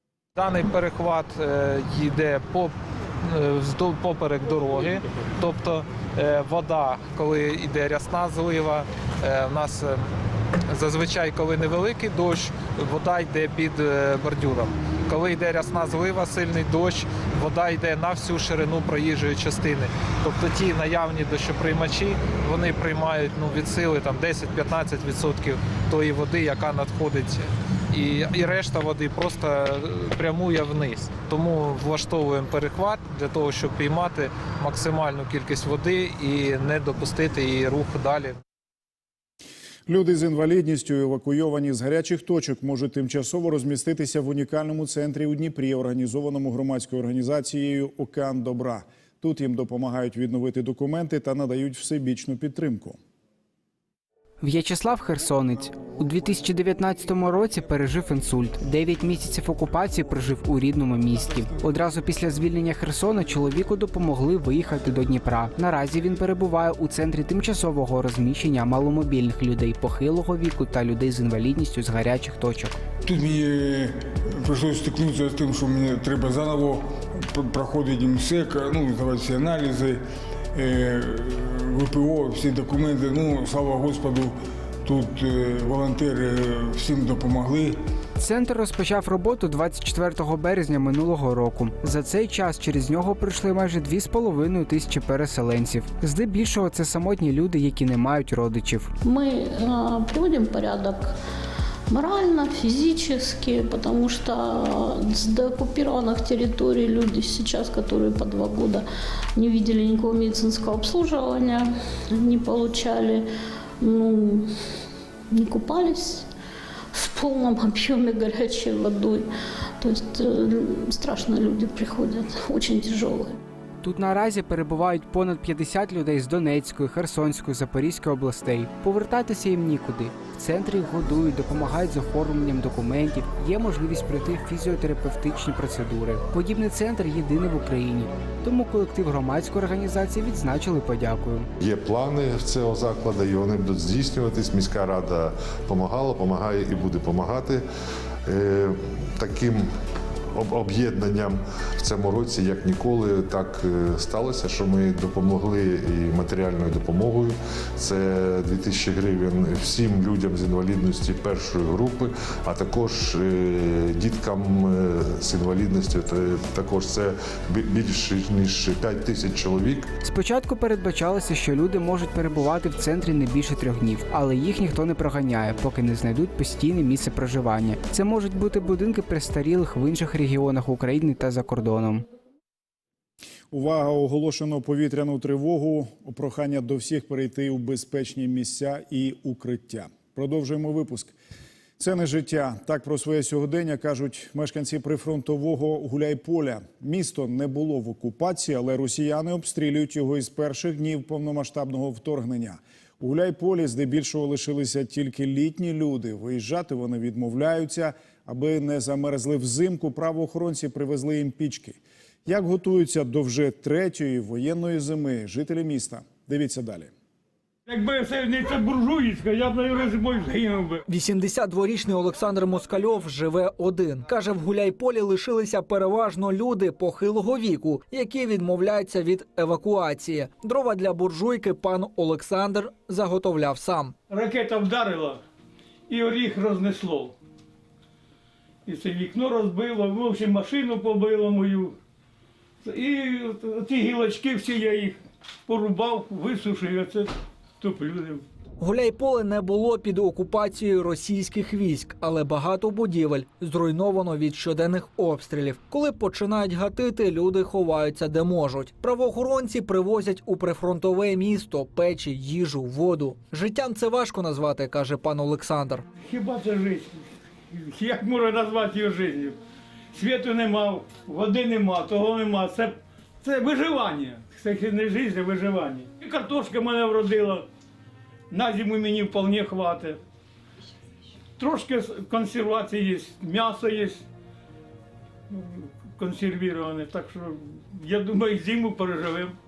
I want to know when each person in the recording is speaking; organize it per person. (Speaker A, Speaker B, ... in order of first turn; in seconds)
Speaker A: 0.3-2.7, 3.2-10.0, 10.7-38.4
Speaker B: 39.9-53.0, 183.5-191.1, 191.8-216.9
Speaker C: 54.4-72.8, 88.2-98.9, 123.8-141.5, 170.0-182.0
Speaker D: 73.0-80.0, 80.5-87.8
Speaker E: 99.0-101.2, 101.9-113.3, 113.8-114.5, 115.3-116.3, 116.9-119.3, 119.8-123.4
Speaker F: 141.6-147.6, 148.2-149.7, 150.3-169.9
Speaker G: 217.7-220.8, 234.1-235.2, 235.9-237.2, 238.7-241.8, 242.6-248.2, 266.0-269.4, 269.9-277.4, 278.3-280.0, 281.4-284.1, 285.3-289.3
Speaker H: 220.9-233.9, 248.6-265.8